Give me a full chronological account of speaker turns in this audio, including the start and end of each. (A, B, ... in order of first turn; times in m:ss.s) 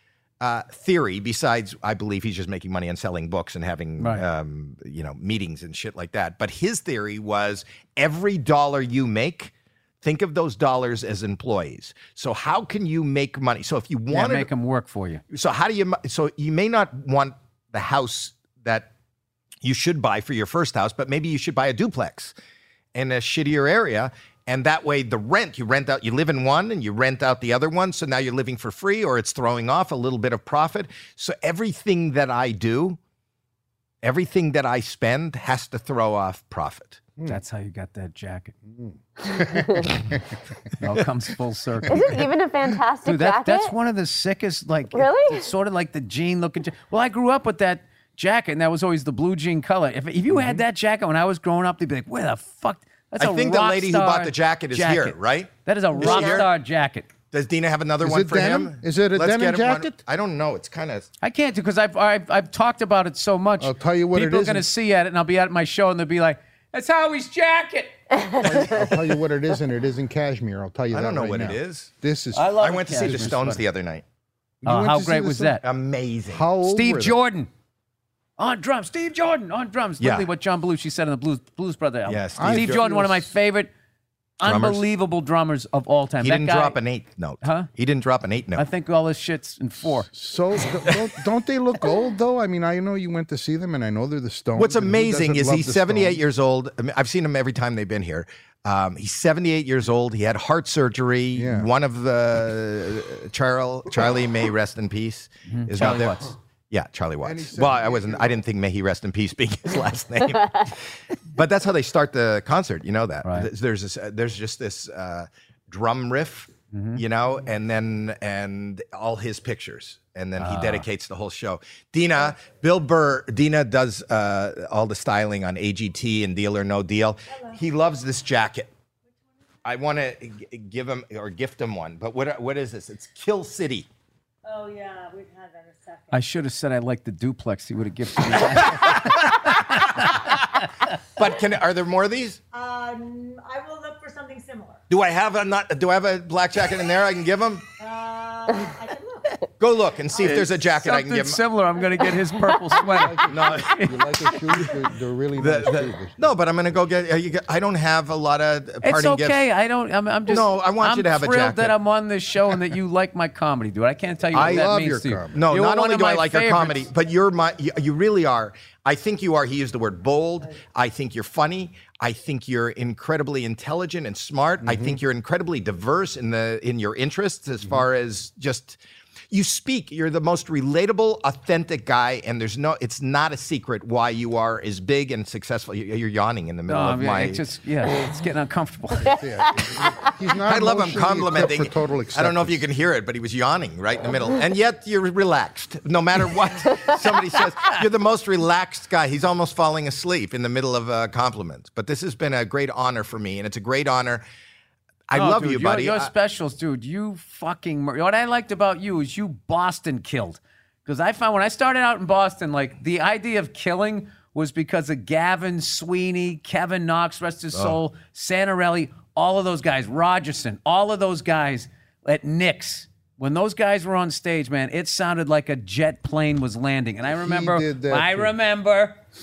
0:00.4-0:14.5 A
0:04.0-0:04.2 B
0:14.1-0:15.2 B
0:15.3-0:18.9 A
0:19.6-0:22.3 A
0:22.9-0:33.0 A
0:34.0-0:37.0 A
0:37.2-0:38.5 B
0:38.7-0:40.2 C
0:40.8-0:42.2 B
0:41.9-0:43.7 D
0:43.0-0:57.1 B
0:44.9-0:45.5 D
0:50.3-0:50.6 C
0:53.2-0:56.5 A
0:57.3-1:01.1 A
0:58.0-1:00.0 C
1:01.2-1:07.9 B
1:03.6-1:04.7 C
1:08.4-1:13.4 C
1:10.9-1:11.9 A
1:12.3-1:13.6 B
1:12.6-1:14.0 A
1:14.6-1:15.6 C
1:14.6-1:15.6 B
1:15.6-1:16.4 A
1:16.3-1:17.2 C
1:16.6-1:17.5 B
1:18.4-1:23.7 B
1:20.0-1:20.3 A
1:22.1-1:22.8 A
1:22.4-1:23.3 C
1:24.4-1:26.8 B
1:24.4-1:24.8 A
1:26.2-1:28.6 A
1:27.4-1:27.7 B
1:28.6-1:30.1 B
1:30.1-1:36.2 C
1:34.6-2:08.7 A
1:41.3-1:41.7 C
1:45.5-1:46.3 B
1:47.2-1:48.4 C
1:56.7-1:57.0 B
2:00.4-2:00.8 B
2:09.6-2:13.9 A
2:14.5-2:16.0 E
2:16.1-2:20.4 B
2:18.5-2:20.5 A
2:21.1-2:22.4 A
2:22.5-2:24.8 E
2:24.9-2:27.6 A
2:27.8-2:28.4 E
2:29.6-2:31.4 A
2:30.2-2:34.0 B
2:32.9-2:36.3 C
2:33.3-2:33.8 A
2:35.4-2:39.4 A
2:38.8-2:46.9 B
2:40.3-2:41.8 A
2:44.3-2:44.7 A
2:44.3-2:45.4 C
2:45.3-2:58.8 A
2:54.6-2:55.0 C
2:59.3-3:07.4 A
3:06.7-3:09.2 B
3:09.0-3:12.6 C
3:09.1-3:09.9 D
3:10.4-3:24.2 A
3:25.1-3:26.1 A
3:25.1-3:49.0 B
3:47.2-3:48.3 C